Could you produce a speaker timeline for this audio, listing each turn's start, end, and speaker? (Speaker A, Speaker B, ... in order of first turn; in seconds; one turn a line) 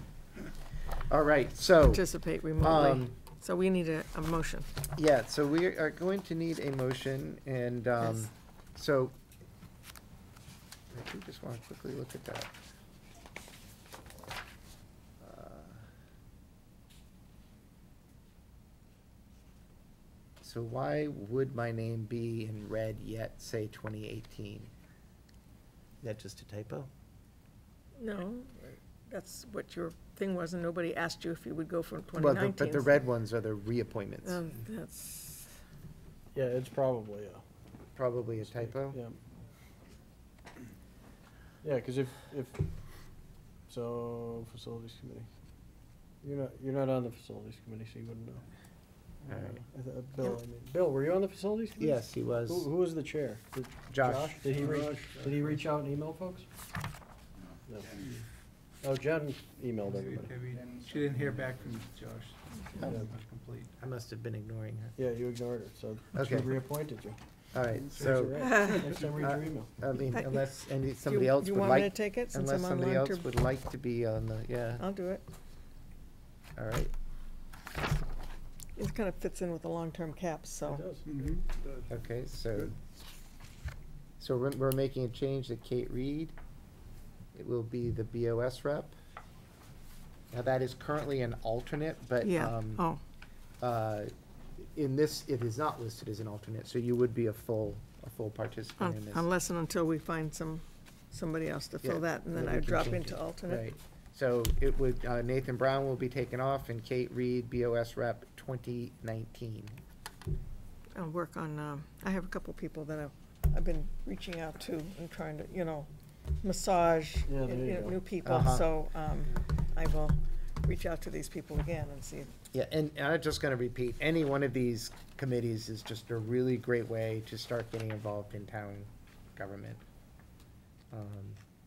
Speaker A: 1.1-2.0
Speaker B: 1.9-4.7
Speaker A: 2.6-3.1
Speaker A: 5.0-9.2
Speaker A: 10.9-12.5
Speaker A: 15.2-15.9
Speaker A: 20.4-24.7
Speaker A: 26.0-26.9
Speaker B: 28.0-33.0
Speaker A: 32.2-34.5
Speaker B: 34.2-35.6
Speaker C: 36.3-37.4
Speaker A: 38.0-39.0
Speaker C: 38.4-39.2
Speaker C: 41.6-42.6
Speaker C: 43.7-45.3
Speaker C: 46.2-48.5
Speaker C: 49.3-56.5
Speaker A: 49.3-49.6
Speaker A: 51.8-52.7
Speaker A: 53.9-54.4
Speaker D: 54.5-55.4
Speaker C: 57.7-58.0
Speaker C: 58.8-60.4
Speaker D: 59.8-63.7
Speaker C: 62.8-63.1
Speaker A: 63.8-65.0
Speaker C: 65.0-67.2
Speaker A: 66.1-66.5
Speaker A: 67.5-68.4
Speaker C: 67.8-69.7
Speaker B: 68.4-68.9
Speaker A: 69.2-74.8
Speaker B: 71.1-73.3
Speaker B: 74.8-75.2
Speaker A: 76.6-76.9
Speaker B: 78.8-80.9
Speaker C: 80.6-81.4
Speaker D: 81.2-81.9
Speaker A: 81.9-82.8
Speaker A: 84.2-86.3
Speaker A: 87.3-89.0
Speaker A: 90.3-92.8
Speaker B: 92.2-93.0
Speaker A: 93.6-99.2
Speaker B: 98.8-103.7
Speaker A: 101.8-109.8
Speaker B: 111.0-115.9
Speaker B: 116.4-122.3
Speaker C: 117.3-118.0
Speaker A: 118.2-118.7
Speaker A: 122.5-129.8
Speaker A: 130.9-131.4